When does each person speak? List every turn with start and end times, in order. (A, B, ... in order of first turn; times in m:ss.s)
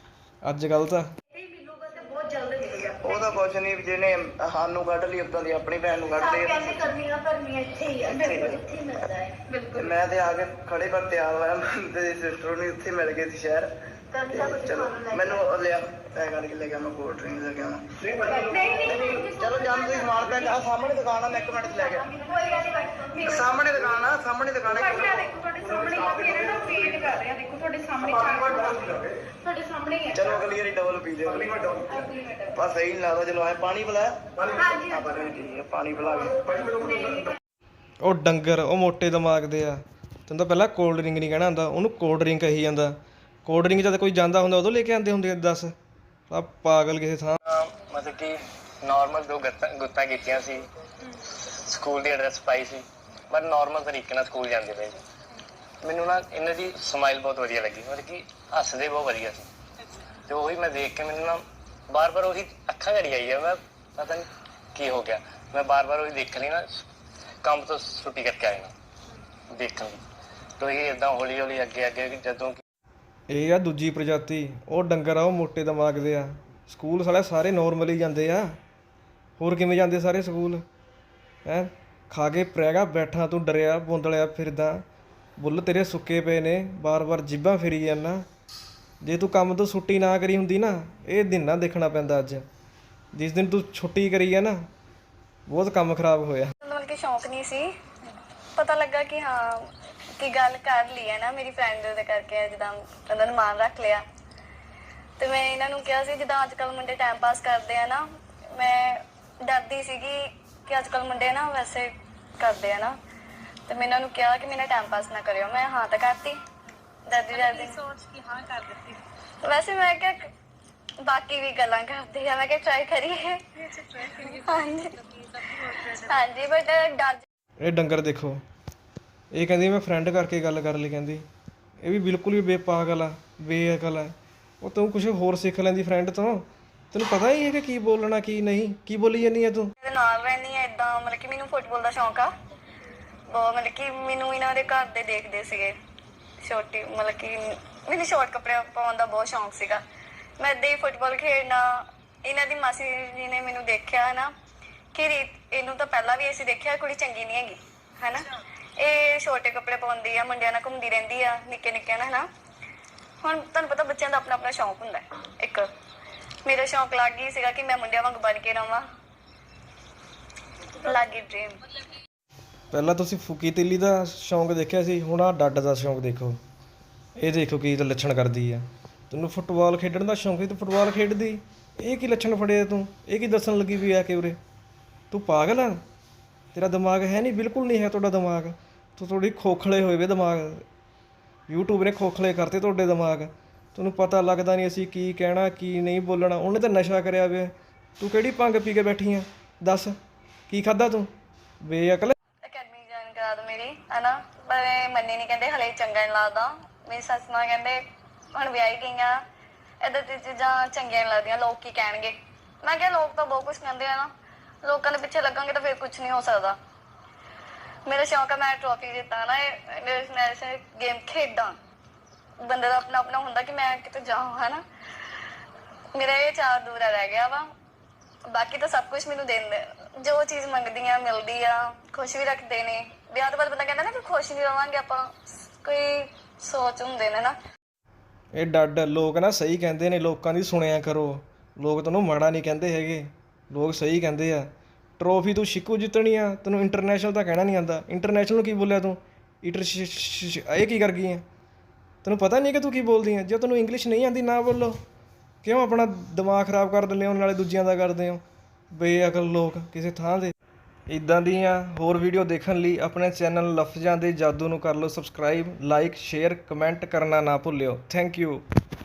0:00.4-0:01.1 A
0:01.3-0:03.3 B
0:03.0-0:07.0 C
0:06.2-0:09.9 B
0:08.0-0:08.6 C
0:09.8-0:13.7 C
0:14.2-0:15.4 B
0:14.2-0:22.2 C
0:18.2-0:20.5 B
0:21.5-0:23.4 B
0:23.1-0:25.3 C
0:24.8-0:30.3 B
0:30.1-0:32.0 C
0:31.9-0:32.5 B
0:32.5-0:37.2 C
0:34.6-0:35.0 B
0:36.8-0:37.3 B
0:38.0-0:45.7 A
0:46.3-0:47.4 A
0:47.5-0:50.7 D
0:51.7-0:55.0 D
0:55.8-0:59.5 D
1:00.3-1:06.7 D
1:07.4-1:08.7 D
1:09.5-1:10.0 D
1:10.6-1:12.6 D
1:13.3-1:18.6 A
1:19.4-1:20.6 A
1:21.4-1:24.8 A
1:25.4-1:28.2 A
1:29.0-1:32.4 A
1:33.2-1:34.6 A
1:35.5-1:36.5 A
1:36.6-1:37.6 E
1:38.6-1:39.6 E
1:40.2-1:44.0 E
1:45.2-1:48.0 E
1:48.6-1:53.0 E
1:53.7-1:56.4 E
1:57.1-1:57.9 E
1:58.0-1:58.8 B
1:59.4-2:00.2 E
2:01.0-2:07.2 E
2:07.6-2:08.4 A
2:09.4-2:11.2 A
2:11.8-2:19.7 A
2:19.8-2:22.3 E
2:23.3-2:25.7 E
2:26.4-2:29.8 E
2:30.4-2:31.6 E
2:32.3-2:34.3 E
2:34.9-2:38.3 E
2:38.8-2:42.3 E
2:43.2-2:45.7 E
2:46.4-2:48.8 E
2:50.8-2:51.6 E
2:52.7-2:56.4 A
2:57.2-3:04.4 A
3:05.1-3:05.8 A
3:06.5-3:10.6 A
3:11.5-3:20.0 A
3:20.5-3:21.1 A
3:21.6-3:22.2 A
3:22.4-3:27.8 E
3:28.3-3:29.2 E
3:29.8-3:34.1 E
3:34.6-3:36.6 E
3:37.9-3:41.6 E
3:42.4-3:44.6 E
3:46.0-3:47.4 E
3:48.3-3:57.4 E
3:58.4-4:04.5 A
4:05.0-4:11.2 A
4:12.0-4:14.8 A
4:15.4-4:20.3 A
4:20.9-4:28.4 A